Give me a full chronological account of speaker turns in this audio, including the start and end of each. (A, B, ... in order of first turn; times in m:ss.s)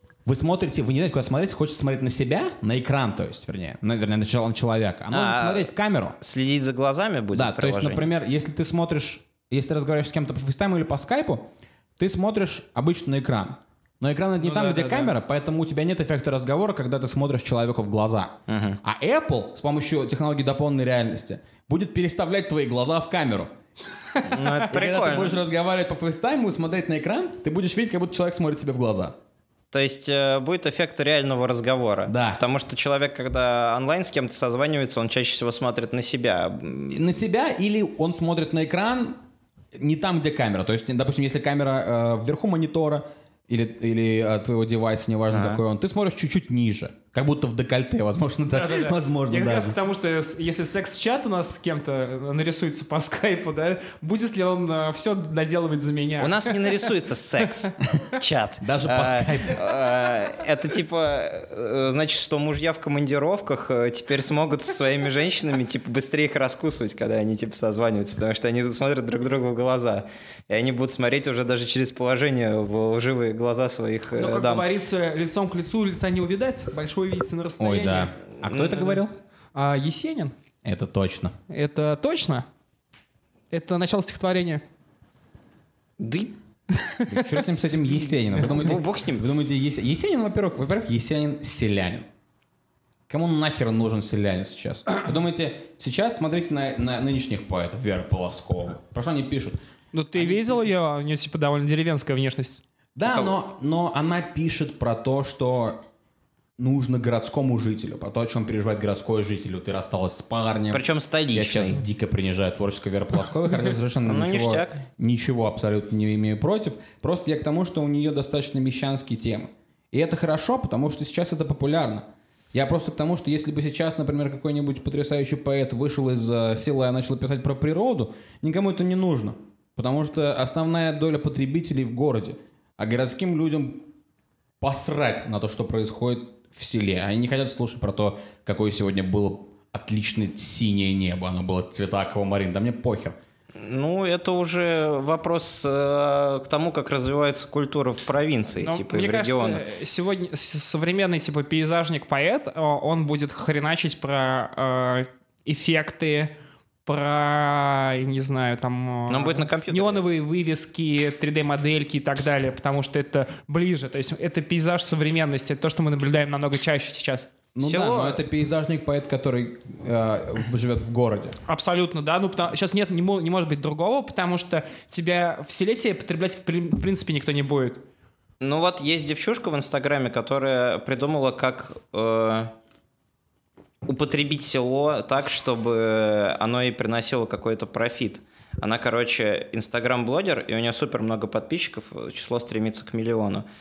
0:00.2-0:06.2 A
0:05.1-0:05.7 B
0:06.2-0:08.1 B
0:07.3-0:11.5 A
0:12.0-0:23.5 A
0:14.4-0:15.1 C
0:18.5-0:18.8 B
0:24.2-0:25.4 B
0:24.6-0:29.2 A
0:29.7-0:37.1 B
0:32.1-0:32.4 A
0:36.9-0:39.2 A
0:39.8-0:49.8 A
0:45.3-0:45.6 B
0:48.5-0:56.9 C
0:56.2-1:14.7 B
0:58.6-0:59.6 A
1:14.1-1:18.1 C
1:17.6-1:19.1 A
1:18.4-1:18.8 B
1:18.7-1:19.0 C
1:19.5-1:20.3 C
1:20.6-1:21.4 A
1:21.5-1:22.4 C
1:23.5-1:24.6 C
1:26.0-1:26.3 B
1:26.8-1:28.0 C
1:27.1-1:32.1 A
1:28.4-1:29.3 B
1:33.1-1:39.6 A
1:39.9-1:42.6 C
1:40.1-1:40.7 A
1:43.0-1:45.8 A
1:43.1-1:43.3 B
1:46.6-2:13.9 A
1:50.7-1:51.8 B
1:54.0-1:54.8 B
2:14.6-2:23.2 A
2:23.6-2:29.6 B
2:28.6-2:36.3 C
2:36.8-2:47.3 C
2:39.1-2:40.0 B
2:47.5-2:51.4 A
2:47.6-2:48.2 B
2:51.4-2:57.8 C
2:58.4-3:02.5 B
3:03.8-3:13.4 B